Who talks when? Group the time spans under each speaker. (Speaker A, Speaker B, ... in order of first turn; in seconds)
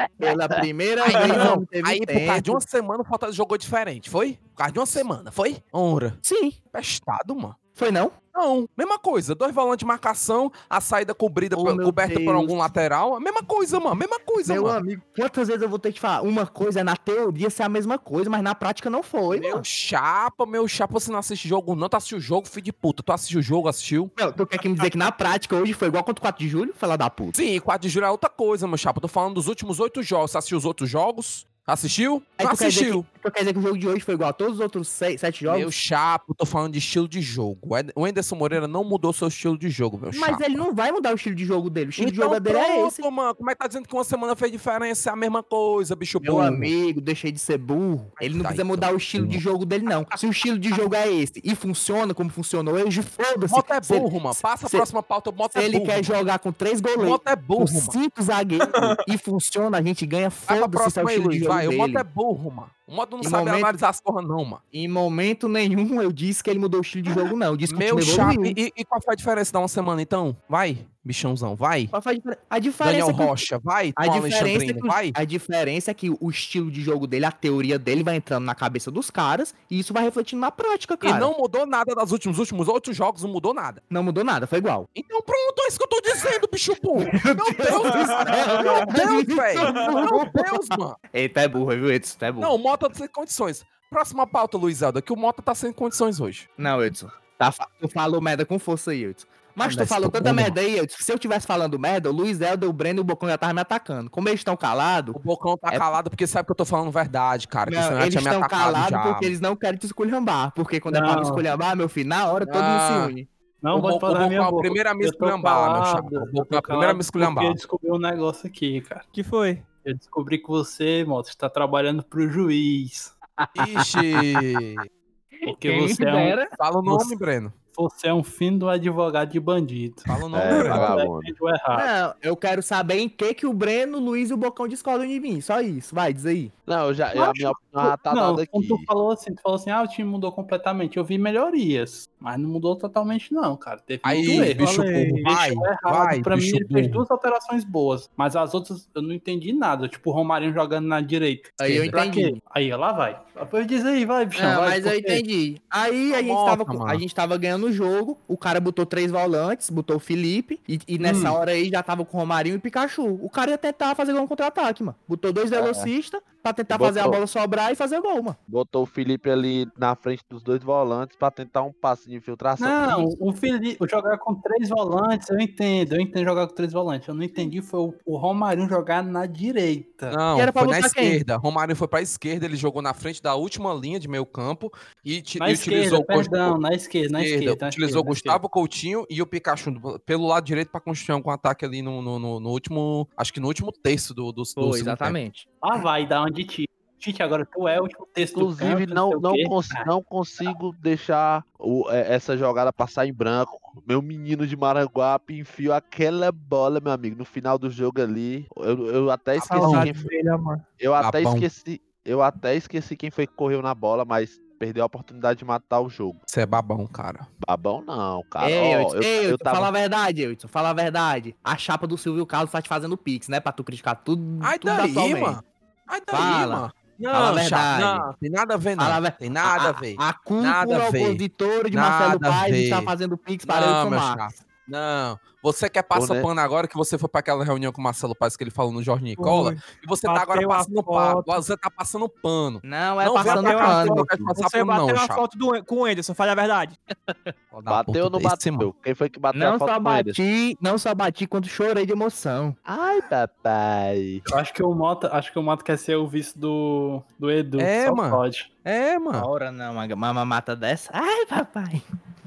Speaker A: 0.2-2.6, 6.2-6.6, 7.7-8.2, 11.5-12.6, 14.4-19.6, 24.2-27.4, 32.4-35.7, 40.1-43.0, 46.2-54.9, 55.5-62.0, 63.2-63.8, 64.7-68.6, 71.9-73.4, 74.0-81.3, 83.9-84.9, 87.0-92.5, 96.6-105.9, 107.7-113.3, 123.4-124.2, 125.4-126.5, 131.7-136.5, 151.6-152.4, 154.3-168.4, 180.3-181.2, 194.6-195.8, 218.4-225.4, 226.1-228.1, 228.8-234.2, 242.6-244.1, 249.3-252.6, 259.1-261.8
Speaker B: 1.0-6.2, 6.7-7.6, 8.3-14.8, 19.3-24.1, 27.3-33.0, 35.5-40.5, 42.0-46.7, 48.2-49.4, 53.5-56.1, 57.0-57.9, 60.5-64.6, 67.7-71.9, 72.8-75.2, 81.0-83.8, 84.9-91.0, 92.4-96.5, 99.6-100.5, 105.1-109.3, 112.4-113.1, 113.7-117.6, 123.5-124.8, 126.5-127.6, 130.1-130.9, 144.0-147.0, 151.6-151.9, 156.1-157.0, 180.1-186.6, 187.1-195.2, 209.6-209.9, 211.0-211.5, 216.3-217.3, 224.4-232.9, 233.4-245.2, 247.5-248.7, 257.6-259.3
Speaker C: 58.8-59.0, 88.1-88.8, 119.1-119.6, 209.4-210.6, 239.2-241.4, 243.2-246.8
Speaker D: 110.9-111.4, 113.6-119.1, 119.8-123.1, 125.5-127.1, 127.7-131.9, 137.2-155.2, 161.0-161.4, 172.6-180.2, 185.4-188.4, 195.6-199.9, 254.3-258.5
Speaker E: 130.3-131.3, 136.7-138.9, 165.5-165.9, 166.7-167.2, 168.5-173.1, 198.3-210.1, 210.8-216.2, 217.4-219.7, 235.9-236.3, 247.7-250.2, 252.7-254.2